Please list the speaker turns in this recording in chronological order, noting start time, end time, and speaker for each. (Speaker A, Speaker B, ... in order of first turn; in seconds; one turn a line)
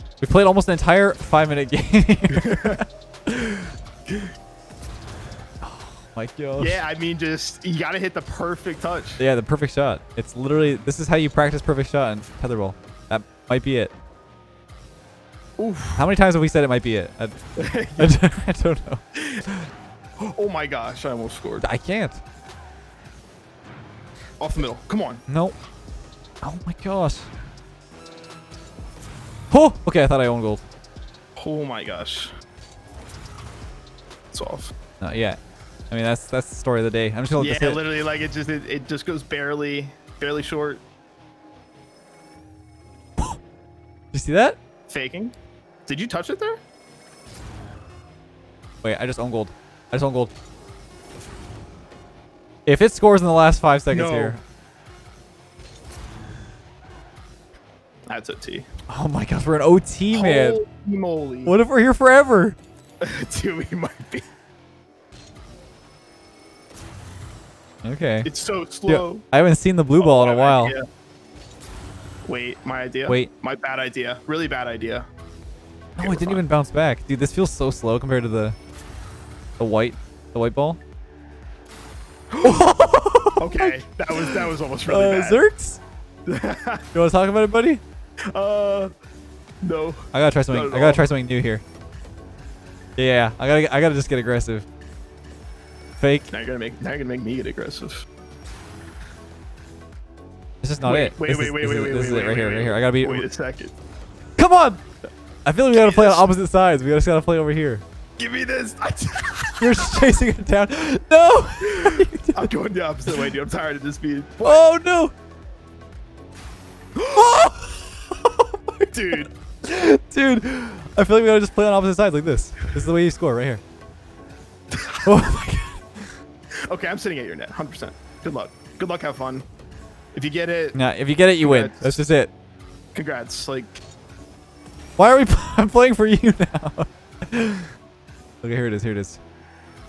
Speaker A: 0.2-3.7
Speaker B: 2.3-2.8
Speaker A: 5.6-6.8
Speaker B: 6.6-9.2
Speaker A: 9.2-13.9
Speaker B: 15.6-16.1
Speaker A: 15.9-17.4
Speaker B: 17.6-18.1
Speaker A: 18.0-19.7
Speaker B: 20.2-21.6
Speaker A: 21.6-22.2
Speaker B: 24.4-25.2
Speaker A: 25.3-25.5
Speaker A: 26.4-27.3
Speaker A: 29.5-30.6
Speaker B: 31.4-32.3
Speaker B: 34.3-34.7
Speaker A: 35.0-35.4
Speaker A: 35.9-37.8
Speaker B: 37.4-40.8
Speaker A: 44.1-44.6
Speaker B: 44.9-45.3
Speaker B: 45.9-46.6
Speaker A: 48.8-50.3
Speaker A: 52.6-54.4
Speaker B: 53.9-54.4
Speaker B: 58.1-58.7
Speaker A: 58.9-60.6
Speaker B: 60.1-61.5
Speaker A: 61.4-62.6
Speaker B: 63.0-64.2
Speaker A: 67.8-68.3
Speaker B: 68.2-69.2
Speaker A: 68.9-70.7
Speaker B: 70.0-70.8
Speaker B: 72.3-75.0
Speaker B: 76.0-76.4
Speaker A: 76.0-78.5
Speaker A: 79.6-80.8
Speaker B: 82.3-82.7
Speaker A: 82.4-85.8
Speaker B: 83.4-85.4
Speaker B: 86.2-86.8
Speaker A: 86.9-87.8
Speaker B: 88.3-88.9
Speaker B: 89.6-91.1
Speaker A: 90.1-91.6
Speaker A: 93.0-94.7
Speaker A: 96.0-96.3
Speaker B: 96.3-98.0
Speaker A: 100.6-103.2
Speaker B: 100.8-103.7
Speaker A: 104.4-104.8
Speaker A: 105.5-107.8
Speaker B: 105.7-106.3
Speaker B: 108.2-110.0
Speaker A: 109.6-112.5
Speaker B: 111.6-114.6
Speaker A: 114.4-115.1
Speaker B: 117.0-117.4
Speaker A: 117.1-123.6
Speaker B: 118.9-119.3
Speaker B: 124.7-125.1
Speaker A: 125.0-126.0
Speaker B: 126.7-129.4
Speaker B: 130.1-130.8
Speaker A: 130.7-132.3
Speaker B: 131.4-132.0
Speaker B: 132.9-133.8
Speaker A: 135.0-137.7
Speaker A: 138.4-139.2